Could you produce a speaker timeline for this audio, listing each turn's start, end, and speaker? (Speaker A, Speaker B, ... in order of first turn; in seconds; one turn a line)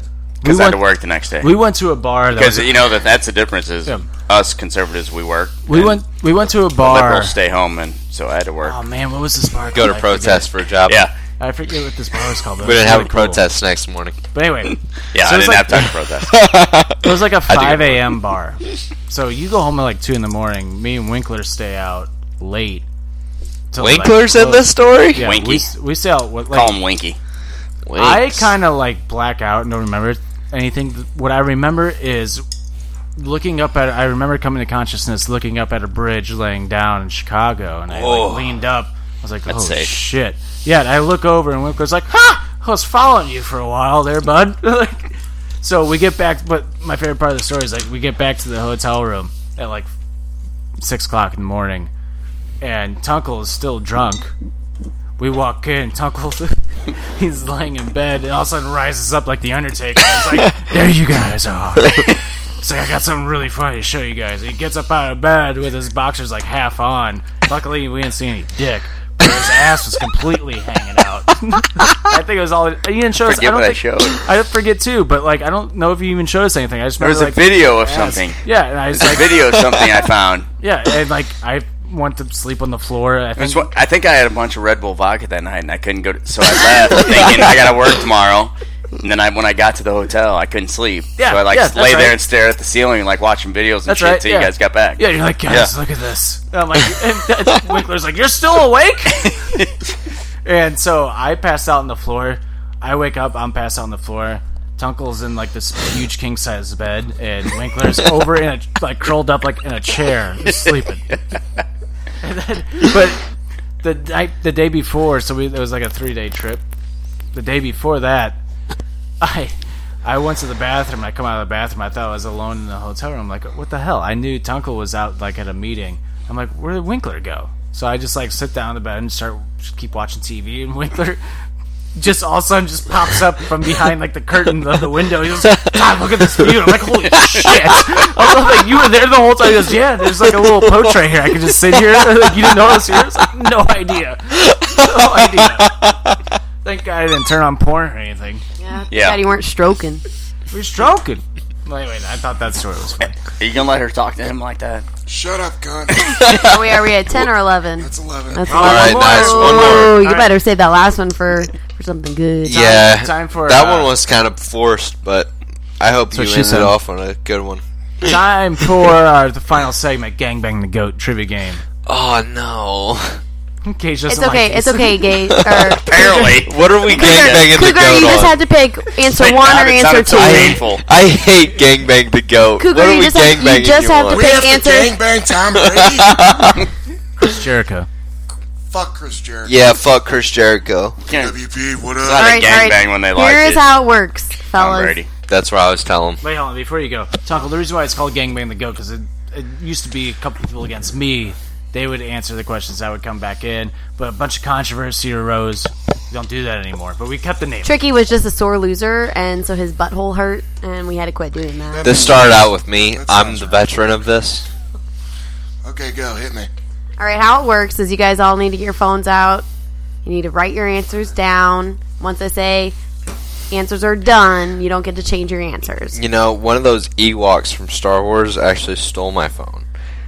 Speaker A: 0.4-0.8
Speaker B: 0.4-1.6
Speaker A: 1.4-2.8
Speaker B: 2.3-6.0
Speaker A: 5.7-7.3
Speaker B: 6.8-8.8
Speaker A: 8.6-10.5
Speaker C: 9.7-11.1
Speaker B: 10.8-11.1
Speaker A: 11.4-13.4
Speaker C: 12.6-14.2
Speaker A: 14.3-15.9
Speaker B: 15.1-16.3
Speaker C: 16.3-18.1
Speaker A: 17.0-22.8
Speaker A: 23.7-26.8
Speaker C: 23.8-25.3
Speaker B: 25.1-25.7
Speaker B: 26.5-27.2
Speaker C: 27.9-28.5
Speaker A: 27.9-32.4
Speaker A: 33.1-49.9
Speaker C: 38.0-38.5
Speaker B: 39.5-39.9
Speaker A: 50.8-51.9
Speaker A: 52.6-54.3
Speaker A: 55.2-79.4
Speaker B: 73.2-74.2
Speaker B: 77.0-78.4
Speaker B: 79.0-80.5
Speaker A: 80.6-83.8
Speaker B: 83.4-95.7
Speaker A: 91.2-92.2
Speaker A: 93.9-99.3
Speaker B: 99.2-99.7
Speaker A: 100.4-111.2
Speaker A: 112.2-113.2
Speaker A: 113.8-116.6
Speaker A: 117.3-118.4
Speaker A: 119.2-131.2
Speaker A: 131.9-145.8
Speaker C: 144.5-146.2
Speaker A: 146.6-148.4
Speaker D: 148.6-150.0
Speaker B: 148.9-149.2
Speaker A: 150.5-153.1
Speaker B: 153.4-154.8
Speaker E: 155.1-156.1
Speaker C: 156.0-156.5
Speaker D: 156.4-162.9
Speaker E: 157.8-158.7
Speaker A: 158.5-160.3
Speaker C: 158.5-160.0
Speaker C: 162.4-168.2
Speaker A: 162.9-163.9
Speaker A: 166.1-166.7
Speaker A: 168.0-171.6
Speaker C: 171.8-173.2
Speaker A: 173.6-174.9
Speaker D: 174.1-180.6
Speaker C: 175.3-178.4
Speaker B: 175.8-177.5
Speaker B: 179.1-180.8
Speaker C: 180.1-184.4
Speaker D: 182.6-185.0
Speaker E: 184.1-186.2
Speaker C: 185.5-186.7
Speaker A: 187.2-187.9
Speaker E: 188.7-189.7
Speaker C: 189.4-191.0
Speaker B: 191.0-191.3
Speaker E: 191.1-192.5
Speaker B: 192.0-193.6
Speaker D: 192.2-195.0
Speaker B: 194.5-195.1
Speaker C: 195.3-196.2
Speaker A: 196.2-207.7
Speaker D: 207.6-212.0
Speaker E: 211.7-213.7
Speaker C: 211.8-214.4
Speaker E: 215.6-216.5
Speaker D: 217.0-219.5
Speaker D: 220.0-222.8
Speaker D: 223.5-226.0
Speaker C: 225.9-229.7